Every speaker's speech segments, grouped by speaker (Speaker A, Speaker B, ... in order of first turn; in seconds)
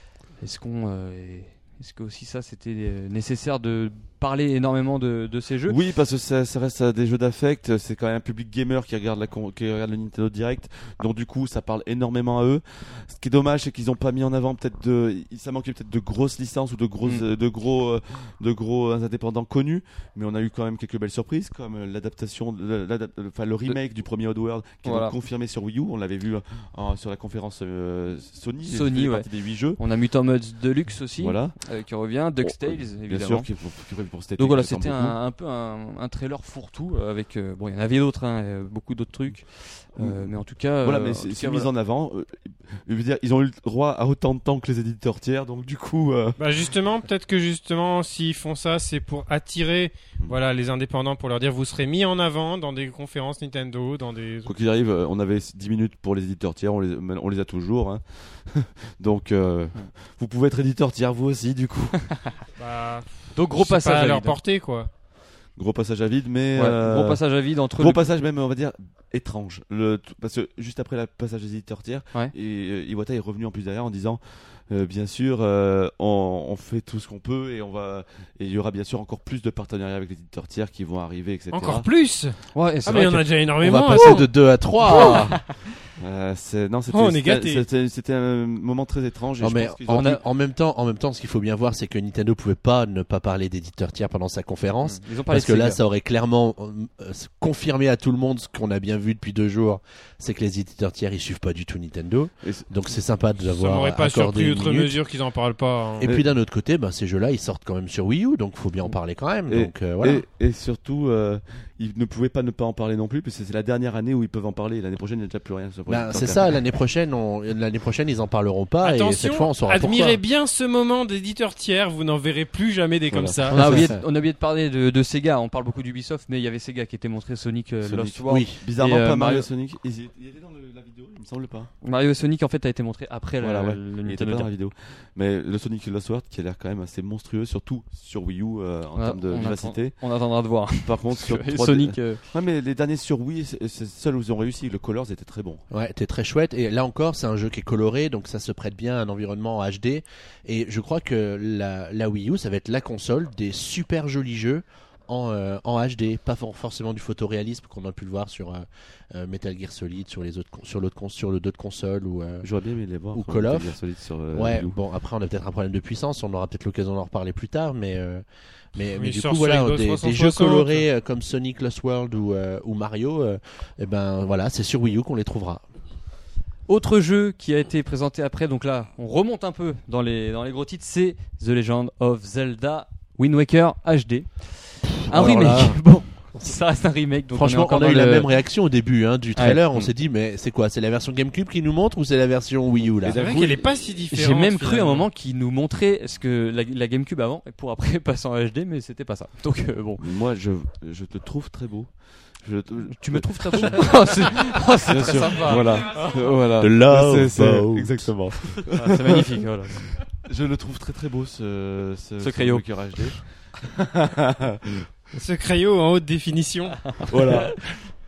Speaker A: 0.3-5.8, 24.8-25.1, 28.6-33.5, 34.4-41.7, 63.3-64.4, 66.5-68.0, 82.5-83.3, 89.9-90.2, 94.8-95.8, 123.5-129.5, 131.8-134.5, 138.9-142.2, 176.7-188.4, 189.3-189.9, 194.1-200.0, 202.9-206.2, 208.7-209.9, 212.2-213.2
Speaker B: 5.7-29.8, 31.2-31.6, 32.4-35.2, 40.0-46.4, 54.4-62.1, 65.5-81.9, 86.0-90.2, 102.4-102.7, 106.0-106.3, 109.5-116.6, 123.1-123.5, 127.8-131.7, 133.4-140.0, 140.8-145.6, 162.4-164.8, 193.0-194.0, 200.0-209.3, 210.0-214.9, 217.1-217.7
Speaker C: 46.4-54.5, 62.6-64.9, 81.5-84.3, 84.8-85.2, 86.9-87.6, 103.4-106.1, 118.8-123.8, 168.9-170.8, 193.1-195.1, 215.1-217.2
Speaker D: 83.6-85.5, 89.4-105.0, 106.0-110.2, 115.9-120.2, 123.5-124.0, 128.3-128.6, 145.7-162.5, 163.1-163.8, 164.3-175.6, 185.1-186.5, 187.3-193.4, 206.6-208.6